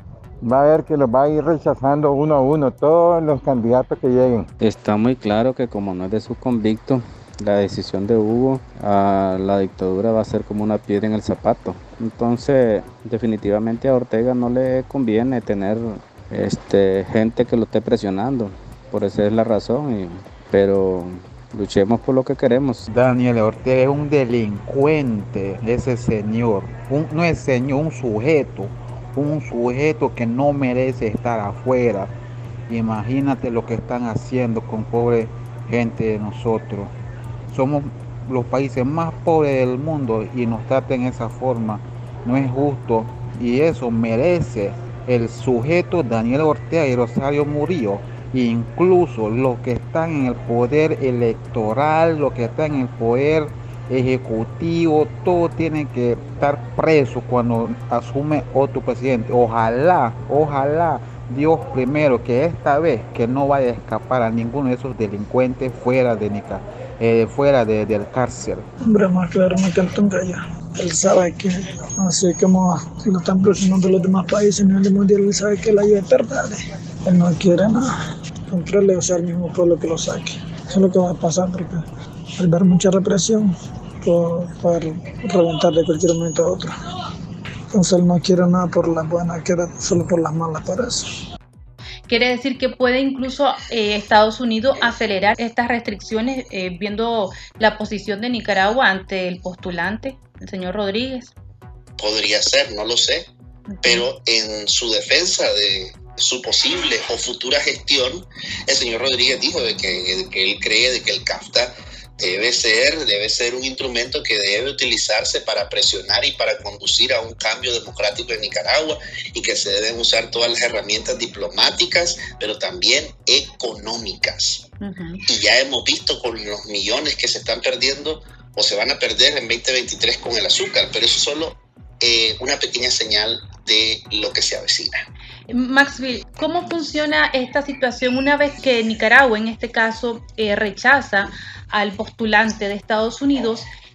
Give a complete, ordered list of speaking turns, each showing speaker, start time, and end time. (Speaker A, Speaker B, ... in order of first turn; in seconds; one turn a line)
Speaker A: 0.4-4.5
Speaker B: 4.6-22.9
Speaker C: 22.9-32.1
Speaker C: 32.7-36.9
Speaker C: 37.5-68.7
Speaker D: 68.8-86.8
Speaker D: 87.7-91.1
Speaker E: 92.1-101.3
Speaker F: 102.0-103.3
Speaker E: 103.7-104.0
Speaker F: 103.8-124.7
Speaker E: 124.8-125.2
Speaker F: 125.3-135.1
Speaker E: 135.5-143.7